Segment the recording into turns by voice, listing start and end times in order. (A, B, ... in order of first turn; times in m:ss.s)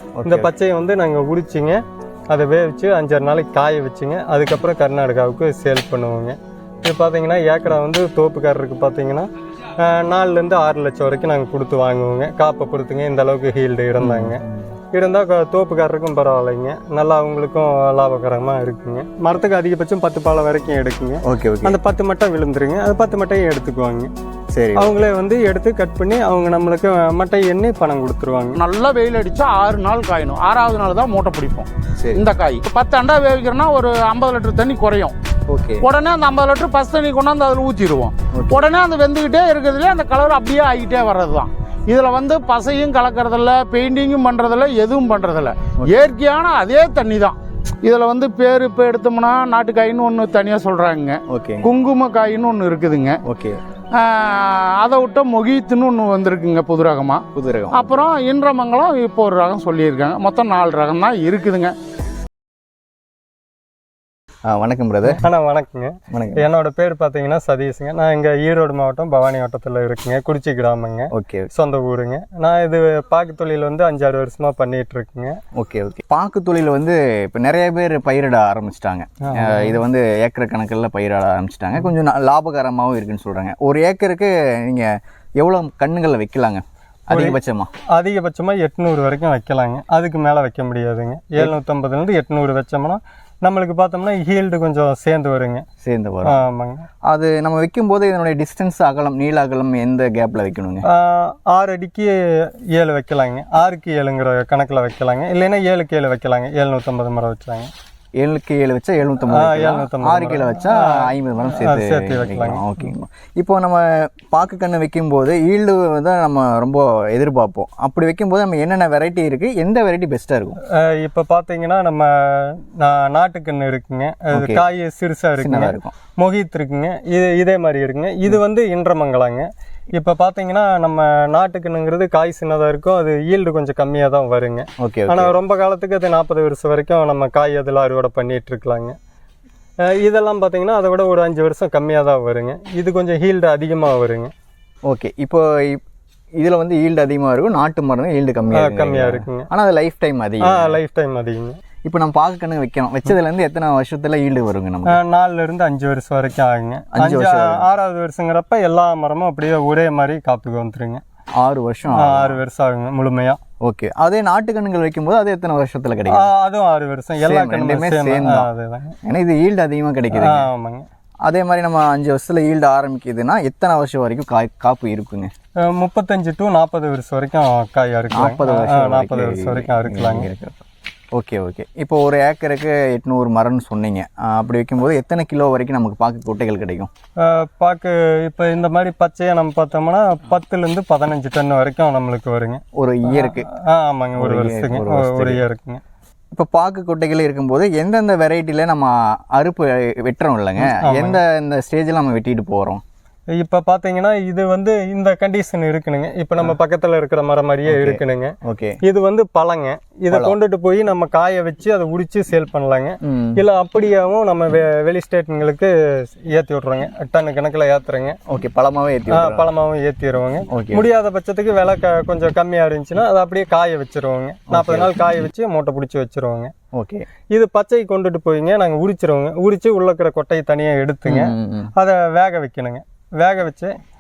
0:00.2-0:00.5 A
0:00.3-0:09.3 B
0:09.8-0:14.4 B
0:14.0-0:14.7 A
0:14.9-0:24.1 B
0:21.2-0:21.8 A
0:24.5-0:25.0 A
0:24.8-0:28.6 B
0:28.6-0:35.2 C
0:35.5-0:35.9 A
0:35.8-0:53.2 C
0:38.3-0:38.6 A
0:51.3-0:51.7 A
0:53.2-0:53.6 A
0:54.0-1:01.7 C
0:57.3-0:58.0 A
1:04.4-1:05.2 A
1:05.1-1:15.4 B
1:06.1-1:06.5 A
1:11.1-1:11.5 A
1:15.6-1:27.7 A
1:19.2-1:19.8 B
1:27.1-1:27.4 B
1:27.9-1:35.6 B
1:35.8-1:36.4 A
1:36.3-1:36.9 B
1:37.1-1:40.8 A
1:40.9-1:47.7 B
1:48.2-2:00.6 A
1:49.3-1:52.6 B
2:00.7-2:19.0 B
2:04.3-2:04.7 A
2:05.4-2:05.9 A
2:14.8-2:15.4 A
2:19.9-2:24.3 B
2:24.9-2:25.8 A
2:26.4-2:30.8 A
2:28.5-2:29.5 B
2:30.4-2:31.6 B
2:31.8-2:35.0 A
2:34.9-2:41.0 B
2:36.9-2:37.7 A
2:41.4-2:42.4 A
2:42.0-2:43.4 B
2:43.6-2:46.3 A
2:46.1-2:49.0 B
2:47.2-2:48.5 A
2:49.0-2:50.5 A
2:50.1-2:50.9 B
2:51.2-2:55.3 A
2:55.7-3:00.3 B
2:58.2-3:00.6 A
3:01.1-3:06.9 A
3:07.2-3:15.8 B
3:12.8-3:13.5 A
3:14.2-3:15.4 A
3:16.3-3:22.8 A
3:20.6-3:21.2 B
3:23.4-3:35.7 B
3:27.7-3:28.8 A
3:30.1-3:30.4 A
3:33.0-3:33.4 A
3:36.3-3:38.2 B
3:38.3-3:39.5 A
3:39.1-3:46.5 B
3:40.5-3:40.9 A
3:44.5-3:45.0 A
3:46.7-3:47.1 A
3:47.3-3:53.7 B
3:51.1-3:51.7 A